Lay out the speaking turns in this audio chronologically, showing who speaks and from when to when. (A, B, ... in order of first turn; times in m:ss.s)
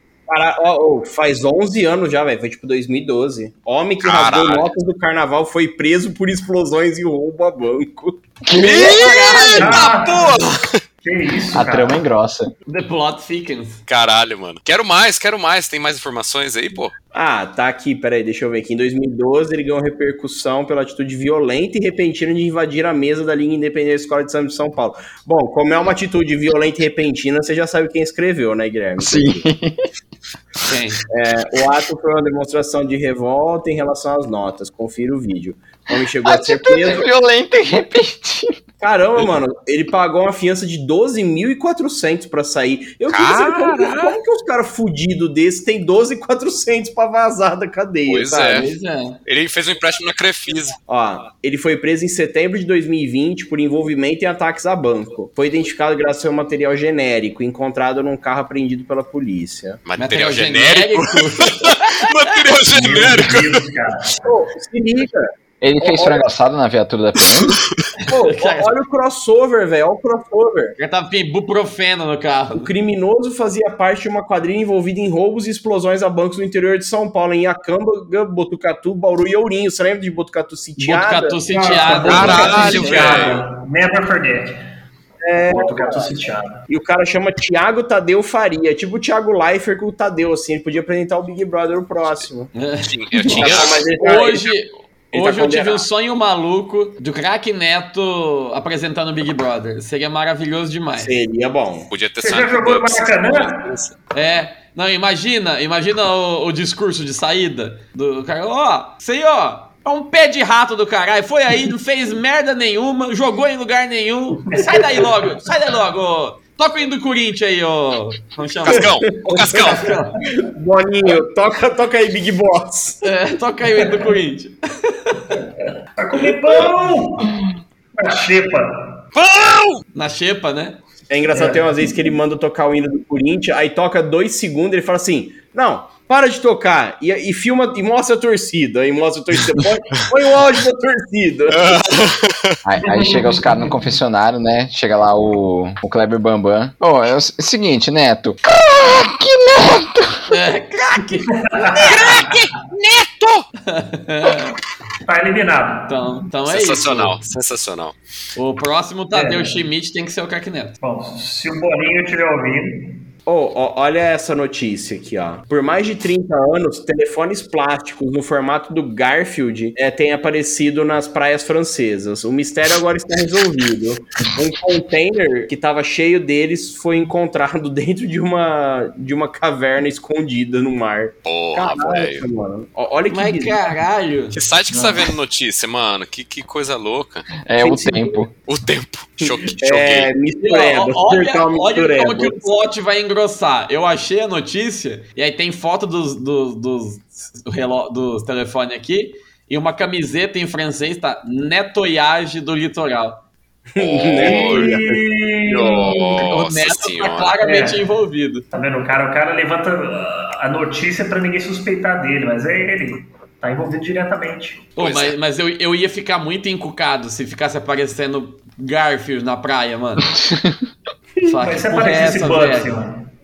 0:00.3-0:08.2 A
0:04.0-0:04.7 B
0:08.4-0:09.7 C
0:08.6-0:09.9 D
0:08.6-0:10.8 B
0:09.5-0:10.4 E
0:11.0-0:12.0 E
0:11.5-0:12.5 C
0:12.7-0:13.8 D
0:13.9-0:16.9 B
0:17.1-0:29.5 A
0:29.0-0:29.8 C
0:30.7-0:31.0 D
0:31.1-0:37.1 A
0:36.2-0:38.6 C
0:38.8-0:48.7 A
0:43.1-0:44.2 B
0:48.1-0:48.7 B
0:48.5-0:49.2 D
0:49.3-0:50.8 B
0:50.9-0:59.8 A
0:59.8-1:03.7 B
1:00.0-1:02.3 D
1:02.7-1:04.1 E
1:04.2-1:06.3 A
1:05.6-1:07.6 C
1:08.0-1:08.7 D
1:08.1-1:10.8 A
1:10.8-1:12.7 D
1:12.6-1:23.2 A
1:20.8-1:23.2 D
1:21.5-1:24.6 E
1:22.1-1:23.4 B
1:25.2-1:32.5 A
1:25.4-1:26.6 E
1:32.6-1:41.1 D
1:32.8-1:33.8 B
1:33.3-1:34.5 A
1:35.1-1:35.8 A
1:41.0-1:41.9 A
1:41.9-1:43.9 B
1:42.2-1:43.7 E
1:44.1-1:58.9 D
1:58.6-1:59.9 B
1:58.6-2:03.0 A
1:59.5-2:00.2 D
2:03.0-2:05.4 D
2:06.0-2:07.4 E
2:06.2-2:06.8 A
2:08.0-2:09.0 E
2:09.1-2:09.8 B
2:09.9-2:10.8 D
2:11.1-2:22.1 A
2:11.3-2:11.7 E
2:21.6-2:22.6 B
2:22.6-2:30.3 C
2:22.8-2:23.6 E
2:30.3-2:31.8 D
2:31.4-2:32.4 E
2:31.8-2:33.5 B
2:33.7-2:34.6 D
2:35.0-2:35.9 E
2:35.9-2:37.2 D
2:36.4-2:37.9 B
2:38.4-2:40.8 D
2:39.1-2:39.6 E
2:40.8-2:43.0 E
2:43.2-3:03.6 A
3:01.2-3:02.2 B
3:03.1-3:04.4 D
3:04.3-3:07.3 B
3:07.4-3:08.3 C
3:07.6-3:08.2 A
3:08.5-3:10.1 B
3:09.2-3:12.5 A
3:10.4-3:23.2 D
3:23.8-3:25.0 A
3:23.8-3:24.8 B
3:24.2-3:26.1 E
3:25.5-3:27.4 B
3:26.2-3:28.4 D
3:27.4-3:27.8 E
3:28.5-3:34.6 E
3:34.8-3:40.1 D
3:34.8-3:35.1 B
3:40.2-3:40.6 C
3:41.2-3:42.8 D
3:41.4-3:43.1 E